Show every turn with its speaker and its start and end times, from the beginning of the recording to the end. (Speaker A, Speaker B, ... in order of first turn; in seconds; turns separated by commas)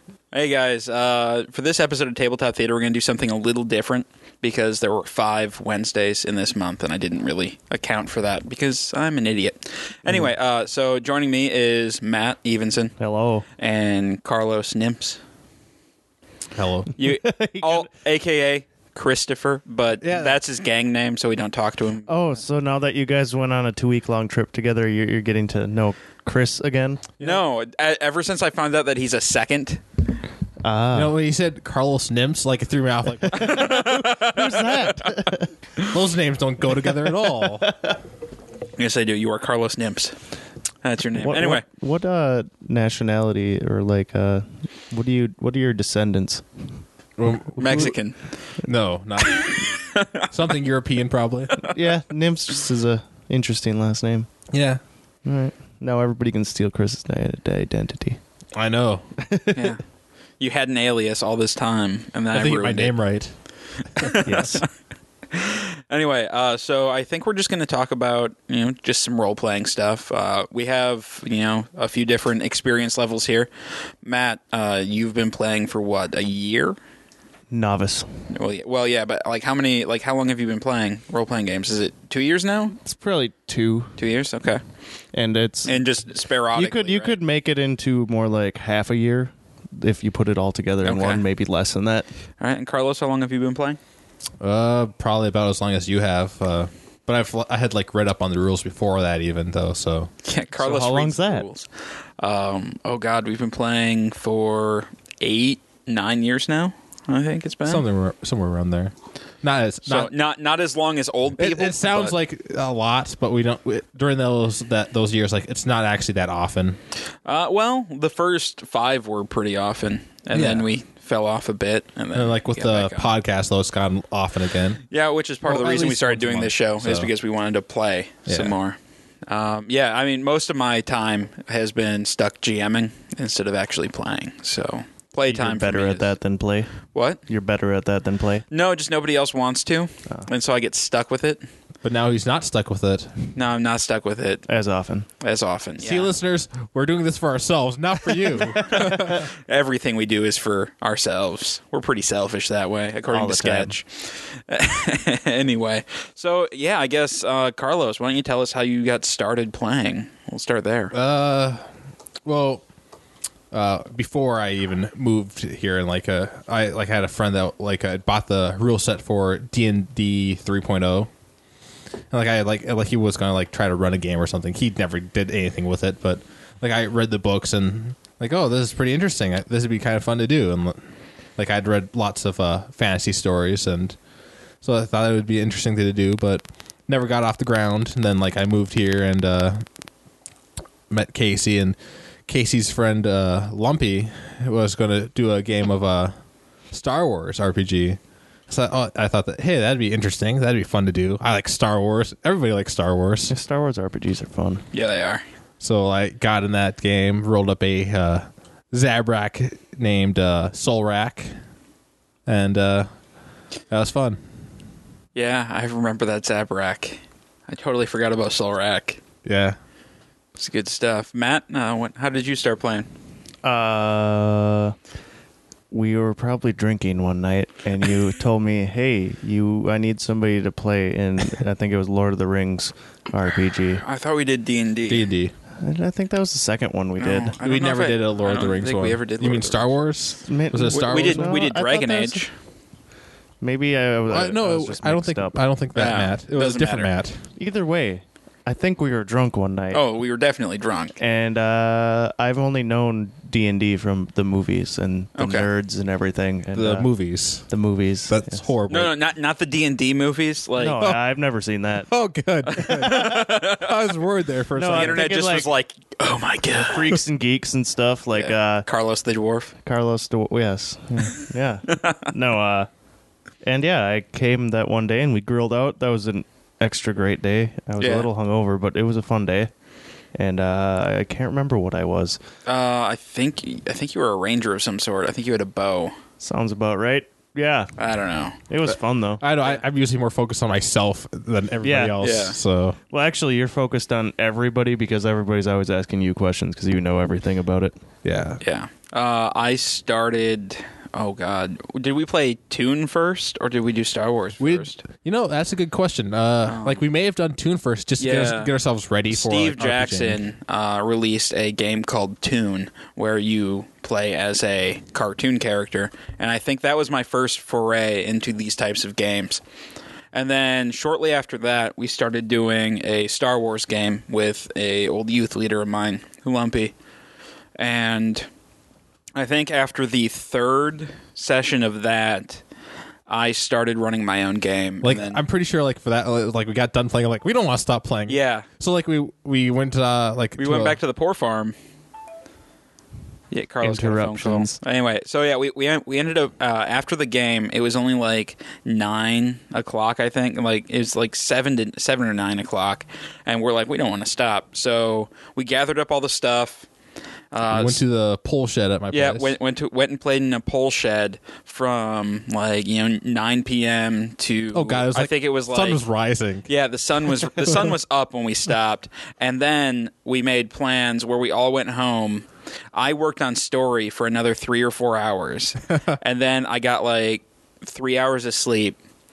Speaker A: 0.3-13.0, Speaker B: 13.0-13.4, Speaker A: 13.6-15.2, Speaker C: 16.5-16.9, Speaker A: 17.0-22.1, Speaker B: 17.0-17.9, Speaker C: 20.0-20.4, Speaker B: 22.1-27.4, Speaker A: 27.2-29.8, Speaker B: 30.6-31.1, Speaker C: 30.9-33.8, Speaker B: 33.2-35.5, Speaker A: 33.3-35.9, Speaker C: 35.9-37.7, Speaker B: 36.9-38.0, Speaker A: 38.8-40.2, Speaker A: 40.8-41.6, Speaker B: 41.2-46.5, Speaker C: 47.2-48.0, Speaker A: 47.6-48.2, Speaker C: 48.6-49.7, Speaker A: 49.2-50.3, Speaker C: 50.3-51.7, Speaker B: 51.6-54.3, Speaker C: 54.5-54.8, Speaker B: 55.2-58.2, Speaker C: 58.6-59.1, Speaker B: 59.2-59.7, Speaker A: 59.5-59.8, Speaker A: 60.4-63.0, Speaker C: 62.3-63.3, Speaker A: 64.0-64.7, Speaker B: 64.2-64.6, Speaker A: 65.3-73.5, Speaker A: 74.0-76.8, Speaker B: 77.5-78.1, Speaker A: 78.3-82.8, Speaker B: 82.8-84.0, Speaker A: 84.0-84.6, Speaker B: 85.1-85.8, Speaker A: 85.7-87.2, Speaker B: 86.5-92.1, Speaker A: 90.8-91.2, Speaker A: 92.4-93.8, Speaker C: 94.4-100.1, Speaker A: 100.2-101.7, Speaker B: 100.6-101.5, Speaker A: 102.2-107.8, Speaker C: 107.7-110.1, Speaker A: 109.9-112.2, Speaker C: 111.4-116.8, Speaker A: 117.2-123.1, Speaker C: 120.3-120.7, Speaker C: 122.1-124.8, Speaker A: 124.9-136.1, Speaker C: 125.4-127.1, Speaker C: 128.3-128.6, Speaker B: 135.3-136.8, Speaker A: 136.9-137.2, Speaker B: 137.3-138.5, Speaker A: 138.5-141.4, Speaker C: 141.8-143.1, Speaker A: 143.3-144.4, Speaker B: 144.5-145.1, Speaker A: 145.2-146.1, Speaker C: 145.8-149.3, Speaker A: 148.5-160.9, Speaker B: 153.1-153.7, Speaker C: 160.9-161.7, Speaker C: 162.2-162.6, Speaker C: 163.5-171.1, Speaker C: 172.1-180.8, Speaker C: 181.4-184.0, Speaker C: 184.6-189.7, Speaker C: 190.9-196.1, Speaker C: 196.7-203.3, Speaker B: 203.3-204.6, Speaker A: 204.7-205.2, Speaker C: 205.6-211.3, Speaker C: 212.3-212.9, Speaker C: 213.7-214.2, Speaker A: 215.2-219.0, Speaker C: 219.2-219.6, Speaker A: 220.4-222.9, Speaker B: 223.4-224.8, Speaker B: 225.7-233.8, Speaker A: 233.8-235.1, Speaker C: 234.9-235.3, Speaker B: 235.6-237.3, Speaker A: 237.0-239.8, Speaker C: 237.4-241.4, Speaker B: 240.3-242.2, Speaker A: 240.7-242.3, Speaker B: 243.4-245.4, Speaker C: 244.1-247.2, Speaker A: 245.8-246.9, Speaker B: 247.4-249.8, Speaker A: 249.7-251.0, Speaker B: 251.0-256.9, Speaker A: 255.2-255.5, Speaker C: 256.5-257.5, Speaker B: 257.5-258.4, Speaker C: 258.1-258.9, Speaker A: 258.7-260.8, Speaker B: 260.6-261.9, Speaker C: 261.9-265.1, Speaker A: 262.5-263.7, Speaker B: 262.9-263.2, Speaker B: 264.6-265.5, Speaker A: 264.7-267.0, Speaker B: 266.5-268.6, Speaker A: 268.1-269.5, Speaker B: 269.6-272.7, Speaker A: 271.7-272.1, Speaker B: 273.4-279.5, Speaker A: 277.8-278.1, Speaker B: 280.1-282.2, Speaker A: 282.5-285.9, Speaker B: 286.2-287.8, Speaker A: 287.8-288.4, Speaker B: 288.5-289.2, Speaker C: 289.2-292.8, Speaker B: 291.6-292.1, Speaker A: 292.0-292.4, Speaker B: 292.9-297.7, Speaker C: 298.0-298.4, Speaker A: 298.4-304.8, Speaker C: 304.4-310.2, Speaker A: 306.5-306.8, Speaker A: 308.0-308.5, Speaker A: 309.1-319.4, Speaker A: 320.1-326.7, Speaker A: 327.6-328.3, Speaker A: 329.2-332.4, Speaker A: 333.1-335.2, Speaker C: 334.8-340.8, Speaker A: 338.1-338.5, Speaker A: 340.4-341.6, Speaker A: 343.3-356.7, Speaker B: 343.6-344.6, Speaker A: 357.3-357.8, Speaker C: 357.5-359.3, Speaker A: 358.9-365.8, Speaker C: 364.5-366.5, Speaker A: 366.5-378.8, Speaker C: 367.4-367.7